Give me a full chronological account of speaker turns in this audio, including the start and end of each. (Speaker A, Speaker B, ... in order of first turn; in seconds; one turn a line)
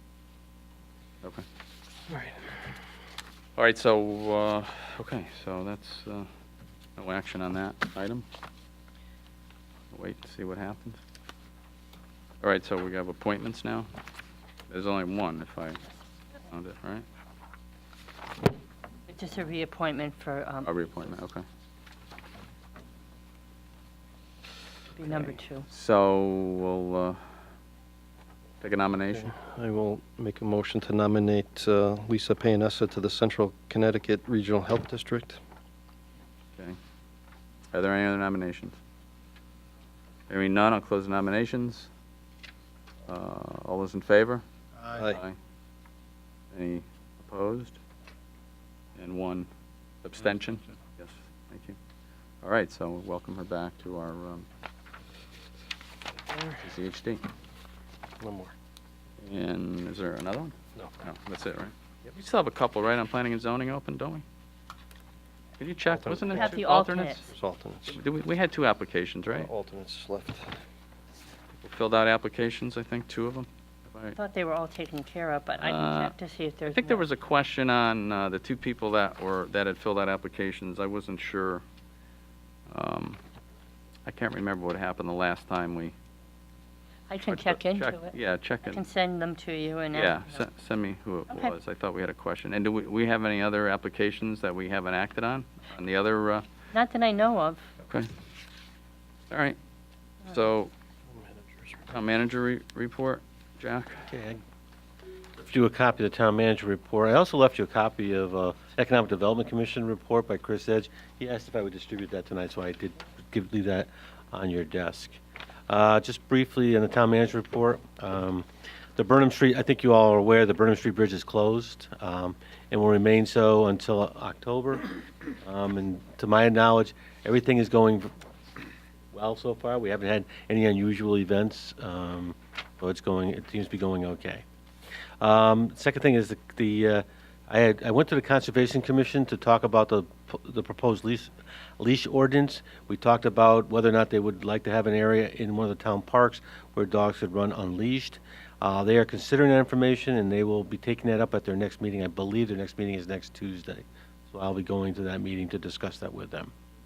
Speaker A: 3.6-6.3
Speaker A: 7.0-8.2
Speaker A: 9.9-11.0
Speaker A: 12.4-13.9
Speaker A: 14.7-15.8
Speaker A: 16.5-17.0
Speaker B: 19.1-20.7
Speaker A: 20.6-21.4
Speaker B: 24.9-25.7
Speaker A: 25.1-27.2
Speaker A: 28.6-29.3
Speaker C: 29.2-35.4
Speaker A: 37.7-38.8
Speaker A: 40.3-41.9
Speaker A: 43.1-44.4
Speaker C: 44.9-45.2
Speaker A: 45.1-45.4
Speaker A: 46.5-47.8
Speaker A: 49.0-49.5
Speaker A: 50.0-51.8
Speaker A: 52.4-54.5
Speaker A: 56.6-57.2
Speaker C: 58.2-58.5
Speaker A: 59.2-64.2
Speaker A: 65.6-67.2
Speaker C: 65.8-66.5
Speaker B: 66.3-67.2
Speaker C: 67.3-68.0
Speaker A: 67.9-69.5
Speaker C: 69.3-70.5
Speaker A: 71.6-74.2
Speaker B: 74.2-77.0
Speaker A: 75.6-76.2
Speaker A: 76.7-81.6
Speaker A: 82.7-83.2
Speaker A: 84.1-85.9
Speaker B: 87.1-88.1
Speaker A: 87.3-88.8
Speaker B: 88.7-90.4
Speaker A: 89.9-96.4
Speaker B: 96.7-97.7
Speaker A: 97.8-98.1
Speaker A: 99.3-99.6
Speaker A: 100.2-100.7
Speaker C: 101.4-101.8
Speaker A: 101.9-104.0
Speaker D: 104.1-104.4
Speaker D: 105.4-115.2
Speaker D: 115.7-124.9
Speaker D: 125.4-128.1
Speaker D: 129.1-134.4
Speaker D: 135.2-156.5